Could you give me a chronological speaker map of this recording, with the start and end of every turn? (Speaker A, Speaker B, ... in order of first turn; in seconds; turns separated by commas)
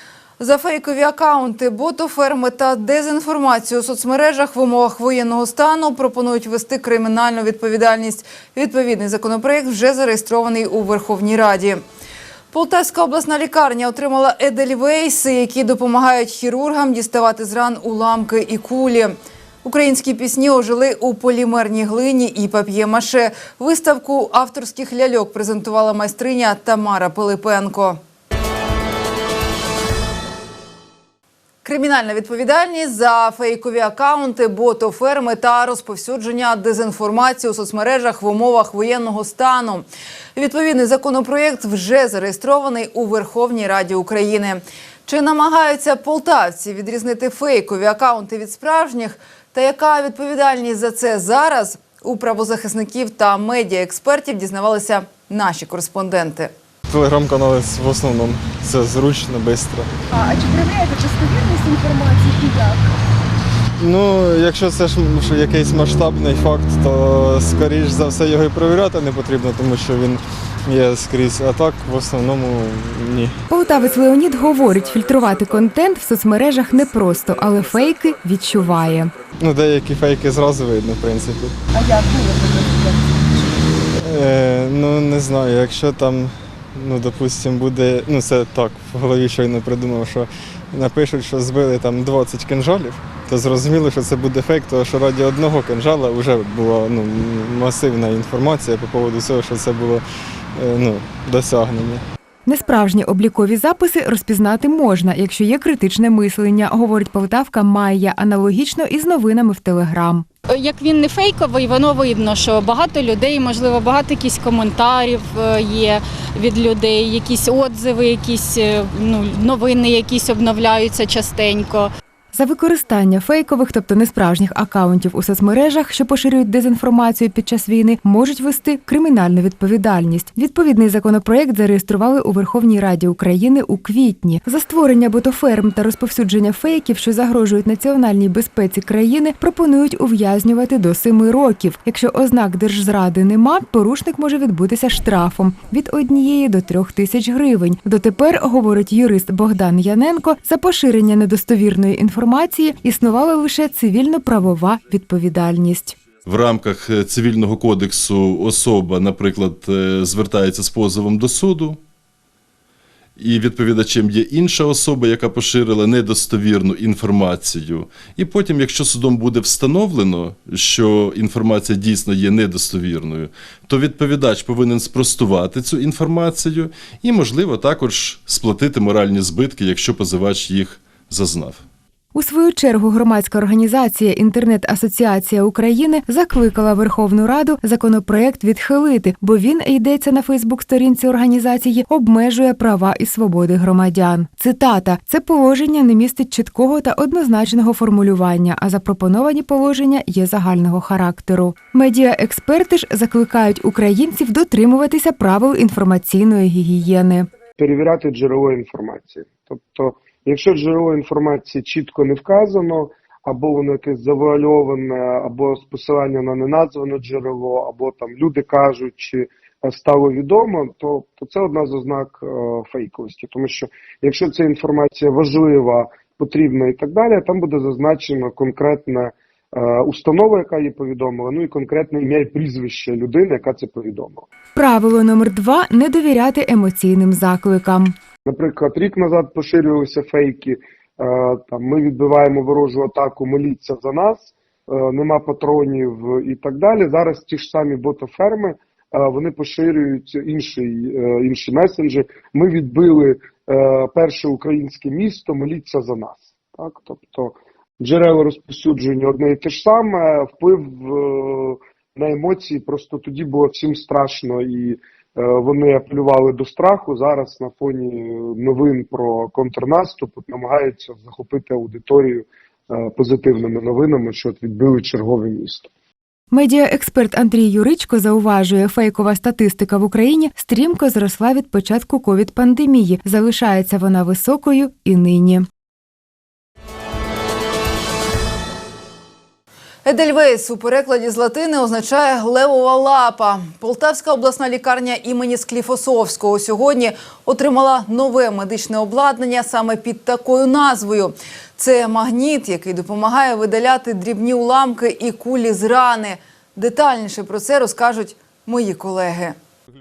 Speaker A: 0.4-11.8, Speaker A: 12.5-28.0, Speaker A: 31.6-56.5, Speaker B: 56.9-59.9, Speaker C: 60.2-62.8, Speaker B: 63.8-73.4, Speaker D: 73.5-79.2, Speaker B: 79.4-81.5, Speaker C: 81.7-83.1, Speaker B: 84.0-100.0, Speaker B: 100.5-102.0, Speaker D: 102.5-110.3, Speaker E: 110.5-121.9, Speaker D: 122.3-156.0, Speaker F: 156.2-161.8, Speaker F: 163.2-181.6, Speaker D: 182.1-207.3, Speaker G: 207.6-234.2, Speaker D: 234.5-237.9, Speaker G: 238.2-275.7, Speaker D: 276.3-285.4, Speaker A: 289.8-309.3